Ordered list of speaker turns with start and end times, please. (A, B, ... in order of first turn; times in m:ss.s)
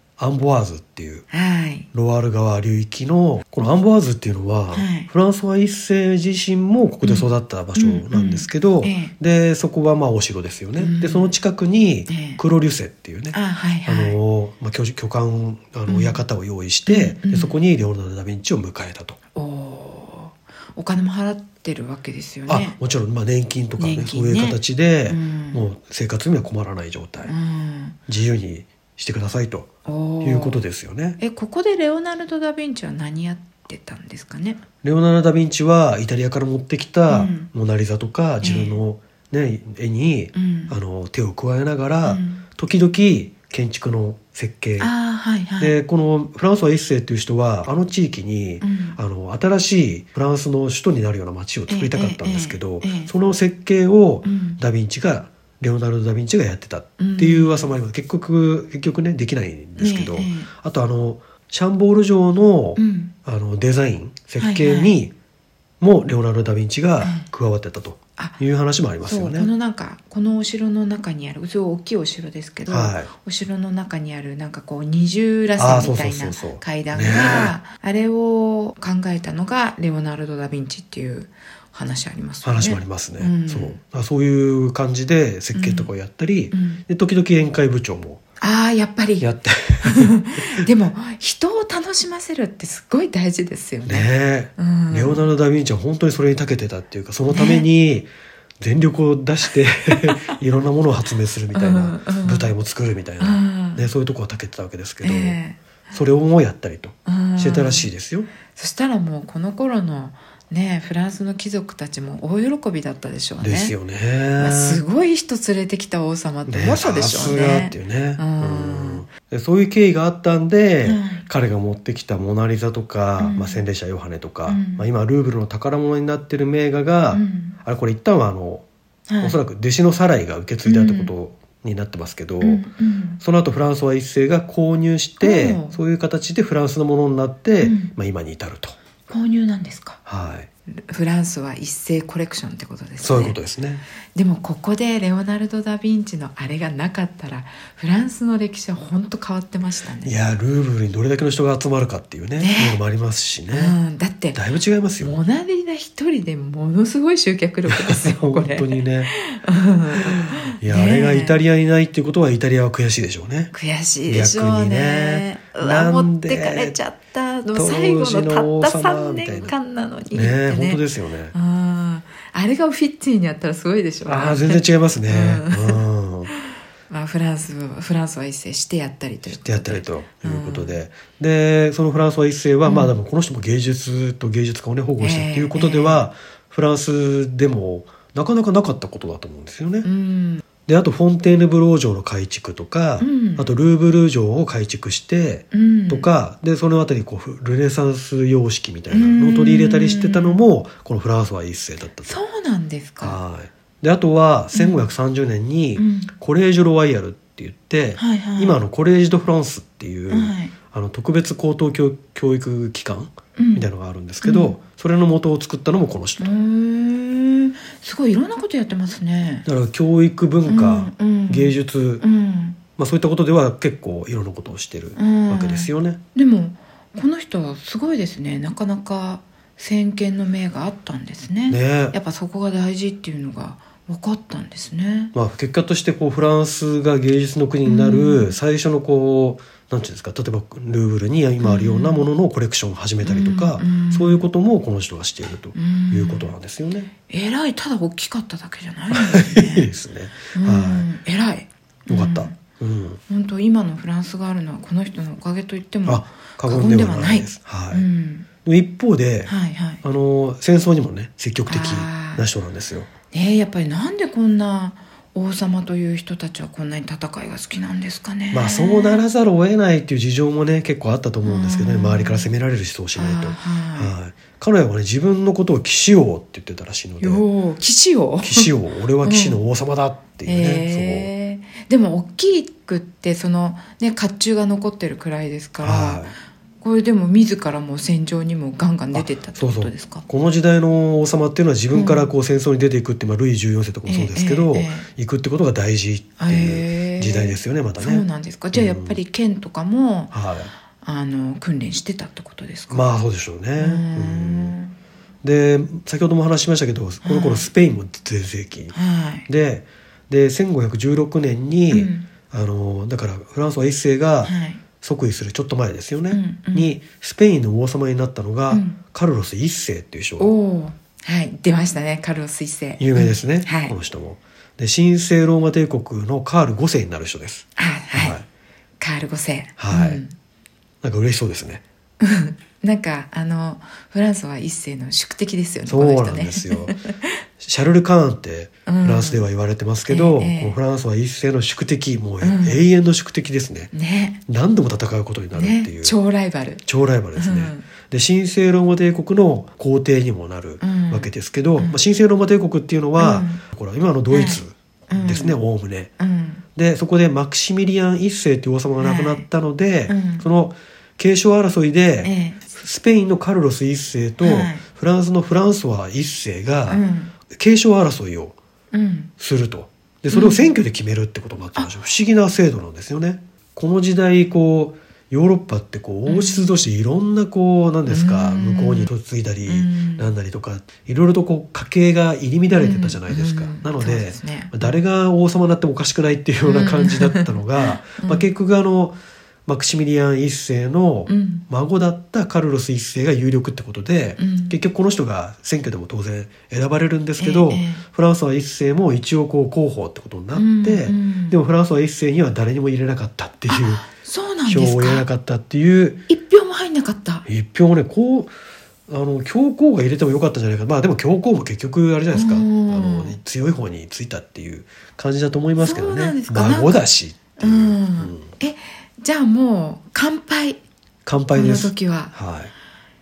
0:00.2-0:01.2 A
0:01.3-0:01.9 B
0:01.9-0:19.2 A
0:04.7-0:05.1 B
0:07.0-0:09.1 B
0:10.8-0:11.4 B
0:12.1-0:12.4 B
0:13.3-0:14.2 B
0:15.9-0:16.2 B
0:16.8-0:17.6 B
0:19.3-0:22.8 B
0:22.5-0:27.3 A
0:23.8-0:25.6 B
0:27.2-0:28.0 B
0:28.1-0:31.2 A
0:29.8-0:30.6 B
0:31.2-0:34.6 B
0:34.8-0:44.9 A
0:37.1-0:37.5 B
0:38.4-0:38.8 B
0:40.3-0:40.8 B
0:42.0-0:42.4 B
0:44.8-0:45.8 B
0:45.6-1:05.1 A
0:48.6-0:49.0 B
0:51.7-0:53.1 B
0:54.2-0:54.6 B
0:57.0-0:57.7 B
0:59.8-1:00.5 B
1:02.8-1:03.1 B
1:04.4-1:04.9 B
1:05.8-1:09.5 A
1:07.0-1:07.3 B
1:09.0-1:23.8 B
1:12.7-1:13.1 A
1:15.6-1:17.5 A
1:22.4-1:28.2 A
1:25.5-1:25.9 B
1:26.5-1:26.8 B
1:28.4-1:29.3 B
1:29.2-1:30.6 A
1:29.8-1:35.2 B
1:33.8-1:45.4 A
1:37.3-1:37.6 B
1:39.9-1:40.2 B
1:41.5-1:42.5 B
1:43.2-1:43.9 B
1:45.0-1:45.6 B
1:45.9-1:48.3 A
1:47.0-1:47.9 B
1:48.5-1:53.7 B
1:53.4-1:54.8 A
1:54.4-1:59.0 B
1:56.5-2:08.6 A
2:00.8-2:01.2 B
2:03.2-2:03.6 B
2:04.5-2:04.8 B
2:07.1-2:07.6 B
2:09.1-2:09.4 B
2:09.2-2:12.6 A
2:10.6-2:11.1 B
2:12.4-2:13.2 B
2:13.2-2:18.8 A
2:15.2-2:15.8 B
2:17.6-2:17.9 B
2:19.1-2:20.0 B
2:20.0-2:20.5 A
2:20.7-2:23.4 B
2:23.0-2:23.8 A
2:24.1-2:30.1 B
2:30.0-2:33.8 A
2:32.4-2:32.8 B
2:33.5-2:34.4 B
2:34.3-2:35.2 A
2:35.0-2:41.4 B
2:37.7-2:39.1 A
2:39.9-2:43.5 A
2:43.5-2:50.8 B
2:44.1-2:46.8 A
2:47.5-2:49.5 A
2:50.1-2:51.3 A
2:51.3-2:56.4 B
2:54.0-2:56.3 A
2:56.9-3:00.8 B
2:59.3-3:09.9 A
3:02.6-3:02.9 B
3:05.0-3:06.1 B
3:09.8-3:10.4 B
3:10.6-3:22.2 A
3:13.0-3:13.5 B
3:15.5-3:16.1 B
3:18.9-3:20.4 B
3:22.0-3:23.2 B
3:23.0-3:36.3 A
3:24.5-3:24.8 B
3:25.8-3:26.1 B
3:28.0-3:28.6 B
3:30.1-3:30.5 B
3:33.4-3:33.7 B
3:34.2-3:34.6 B
3:36.2-3:39.4 B
3:39.4-3:42.0 A
3:40.4-3:42.6 B
3:42.8-3:46.0 A
3:45.0-3:55.1 B
3:51.5-3:51.9 A
3:55.1-4:06.9 A
3:57.6-3:58.4 B
4:01.4-4:02.1 B
4:03.0-4:04.2 B
4:05.5-4:06.3 B
4:07.1-4:09.7 B
4:08.9-4:10.8 A
4:10.3-4:12.4 B
4:11.9-4:13.0 A
4:13.1-4:18.3 B
4:15.8-4:17.8 A
4:18.4-4:22.9 A
4:19.2-4:19.8 B
4:21.5-4:22.2 B
4:23.1-4:29.0 B
4:28.3-4:37.2 A
4:31.2-4:32.3 B
4:33.0-4:33.9 B
4:37.0-4:38.5 B
4:38.2-4:41.1 A
4:39.0-4:39.4 B
4:40.2-4:46.1 B
4:45.6-4:46.1 A
4:46.6-4:50.0 B
4:48.9-4:59.0 A
4:51.7-4:52.1 B
4:53.9-4:54.9 B
4:56.2-5:00.1 B
5:00.1-5:00.5 A
5:00.8-5:03.0 B
5:02.7-5:04.5 A
5:03.6-5:04.7 B
5:05.2-5:08.7 A
5:07.0-5:07.5 B
5:08.7-5:09.3 B
5:09.3-5:20.3 A
5:11.7-5:12.1 B
5:14.2-5:14.6 B
5:16.1-5:16.8 B
5:18.5-5:18.8 B
5:20.2-5:23.7 B
5:22.8-5:28.2 A
5:27.6-5:28.2 B
5:28.8-5:30.1 B
5:29.6-5:30.0 A
5:30.8-5:31.6 A
5:32.0-5:37.1 B
5:35.6-5:36.8 A
5:37.4-5:43.7 A
5:38.6-5:39.2 B
5:39.9-5:40.6 B
5:42.2-5:42.6 B
5:43.7-5:44.2 B
5:44.3-5:46.0 A
5:45.3-5:46.6 B
5:46.6-5:55.9 A
5:47.2-5:47.7 B
5:50.6-5:51.8 B
5:53.0-5:53.4 B
5:54.1-5:55.4 B
5:56.0-5:56.4 B
5:56.6-6:08.4 A
5:58.8-5:59.2 B
5:59.9-6:00.2 B
6:02.0-6:02.4 B
6:04.2-6:04.6 B
6:06.7-6:07.1 B
6:08.7-6:09.1 B
6:09.2-6:43.8 A
6:10.1-6:10.5 B
6:16.0-6:16.5 B
6:17.9-6:18.9 B
6:19.5-6:20.1 B
6:22.5-6:24.8 B
6:26.4-6:28.3 B
6:31.1-6:31.4 B
6:34.2-6:34.6 B
6:37.2-6:37.8 B
6:40.3-6:41.4 B
6:43.5-6:45.0 B
6:44.4-6:46.0 A
6:46.1-6:47.3 B
6:47.2-6:48.3 A
6:48.9-6:58.3 A
6:52.1-6:53.2 B
6:55.6-6:56.8 B
6:57.4-7:00.6 B
7:01.0-7:02.5 A
7:01.3-7:02.1 B